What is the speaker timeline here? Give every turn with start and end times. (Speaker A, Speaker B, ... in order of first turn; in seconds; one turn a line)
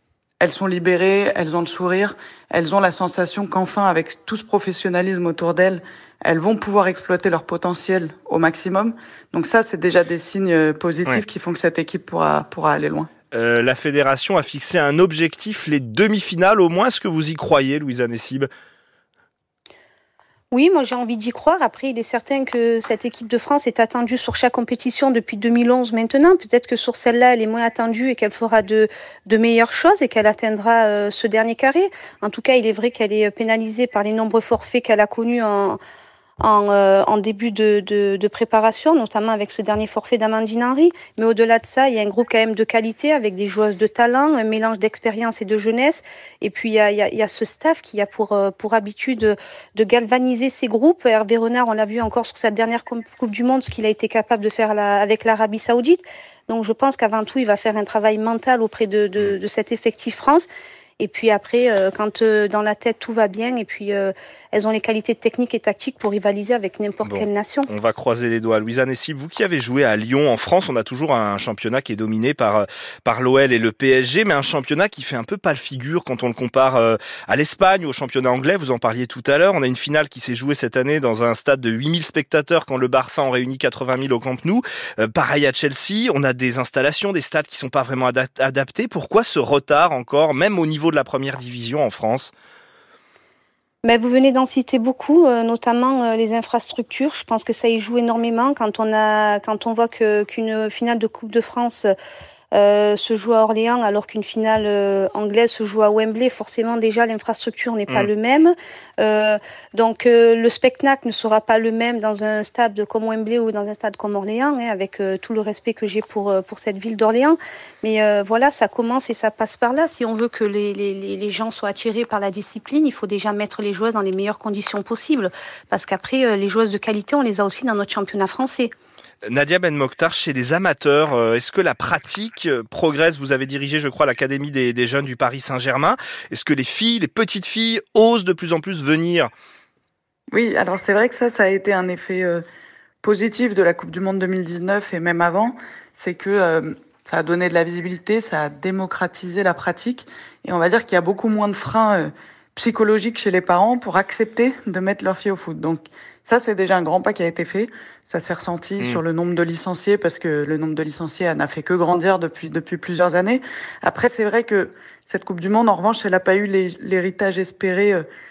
Speaker A: 0.4-13.1
Speaker B: 13.3-18.5
Speaker C: 20.5-35.8
Speaker C: 36.4-60.5
Speaker C: 61.0-67.7
Speaker B: 67.0-92.3
Speaker C: 93.8-101.9
Speaker C: 102.5-128.7
Speaker B: 129.2-139.3
Speaker A: 140.3-142.4
Speaker A: 143.0-168.0